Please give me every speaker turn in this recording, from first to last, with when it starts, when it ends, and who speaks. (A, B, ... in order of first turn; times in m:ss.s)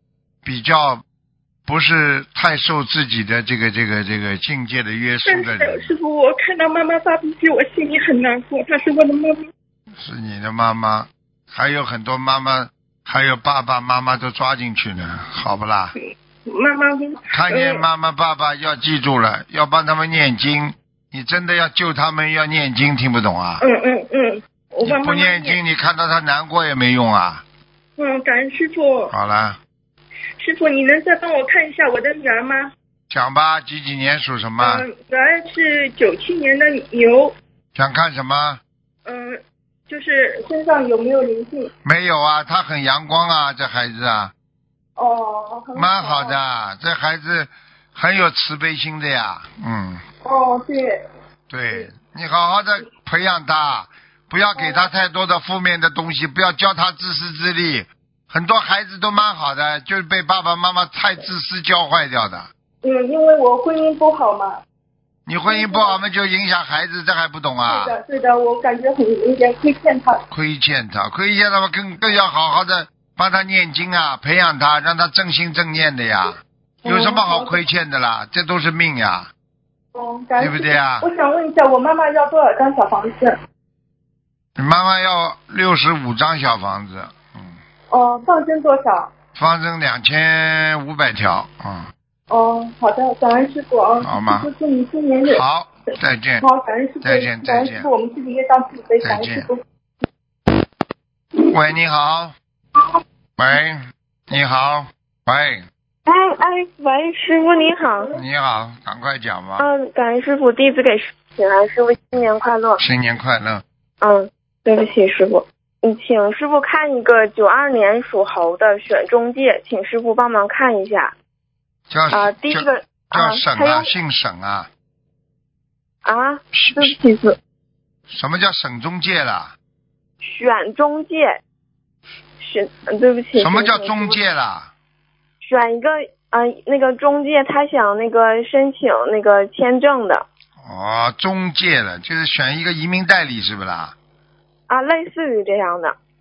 0:00.4-0:01.0 A
0:01.7-0:05.9 A
0:05.2-0:09.5 B
0:10.0-0:16.0 A
0:16.0-0:17.8 B
0:17.3-0:23.6 A
0:23.6-0:25.6 B
0:24.8-0:27.4 A
0:28.0-0:29.1 B
0:29.1-0:29.6 A
0:30.4-0:32.7 B
0:33.1-0:34.8 A
0:34.6-0:37.4 B
0:37.8-0:38.6 A
0:39.0-0:41.7 B
0:41.8-0:44.3 A
0:45.0-0:46.4 B
0:45.8-0:50.0 A
0:50.2-0:51.0 B
0:51.5-1:02.5 A
1:02.8-1:04.6 B
1:05.3-1:08.0 A
1:05.5-1:06.0 B
1:07.7-1:10.2 B
1:10.3-1:19.3 A
1:16.8-1:17.6 B
1:19.9-1:23.4 B
1:20.4-1:21.1 A
1:24.6-1:27.6 A
1:27.9-1:29.1 B
1:29.4-1:31.9 A
1:32.3-1:35.4 B
1:34.0-1:34.5 A
1:35.3-1:36.4 A
1:36.4-1:39.6 B
1:37.0-1:37.9 A
1:39.0-1:39.5 A
1:41.4-1:42.3 A
1:43.4-1:43.8 A
1:44.3-1:45.6 A
1:46.1-1:48.1 C
1:48.1-1:49.7 A
1:49.6-1:52.8 C
1:52.8-1:53.6 A
1:54.0-2:01.1 C
2:01.9-2:04.7 A
2:02.1-2:03.9 C
2:06.0-2:07.4 C
2:06.5-2:07.0 A
2:08.1-2:09.5 A
2:10.2-2:11.4 C
2:12.4-2:14.2 C
2:13.4-2:14.7 A
2:15.4-2:20.2 C
2:20.6-2:24.0 A
2:24.7-2:26.0 C